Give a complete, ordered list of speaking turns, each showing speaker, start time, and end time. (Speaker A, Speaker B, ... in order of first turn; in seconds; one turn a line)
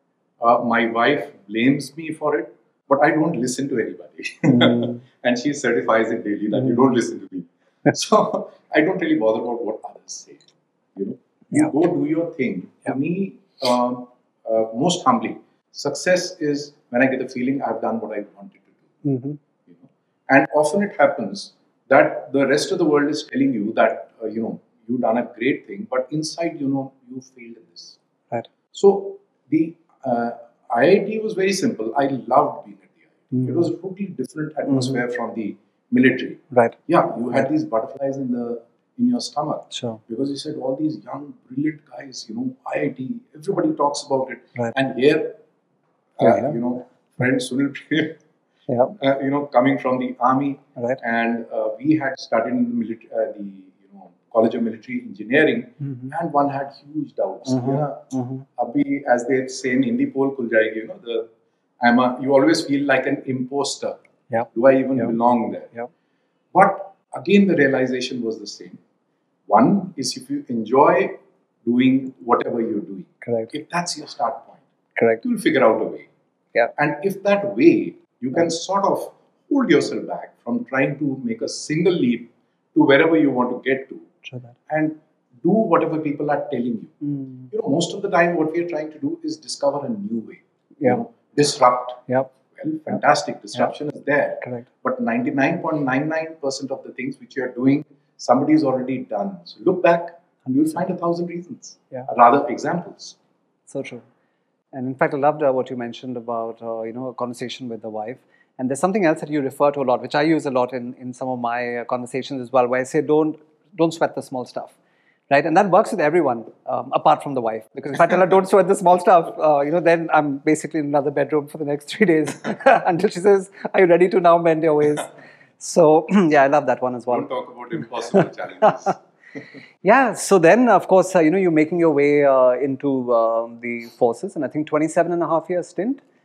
Speaker A: 0.4-18.8
Speaker B: 4.5-5.0
Speaker B: 19.0-19.4
Speaker A: 19.7-28.0
Speaker A: 28.7-45.4
Speaker B: 33.3-33.6
Speaker B: 34.7-35.0
Speaker B: 39.7-40.0
Speaker A: 46.2-48.2
Speaker B: 46.2-46.5
Speaker B: 48.7-48.9
Speaker A: 48.9-61.3
Speaker B: 55.8-56.1
Speaker B: 57.5-58.5
Speaker A: 61.8-64.0
Speaker B: 64.3-65.1
Speaker A: 64.5-65.7
Speaker A: 66.5-68.8
Speaker A: 69.5-74.6
Speaker B: 73.2-73.5
Speaker B: 75.0-75.2
Speaker A: 75.2-76.1
Speaker A: 76.8-84.1
Speaker B: 84.2-84.5
Speaker A: 84.7-87.0
Speaker B: 87.0-87.5
Speaker A: 87.5-103.2
Speaker B: 103.7-104.0
Speaker B: 104.7-114.7
Speaker B: 115.3-127.3
Speaker A: 127.1-129.0
Speaker B: 129.8-136.0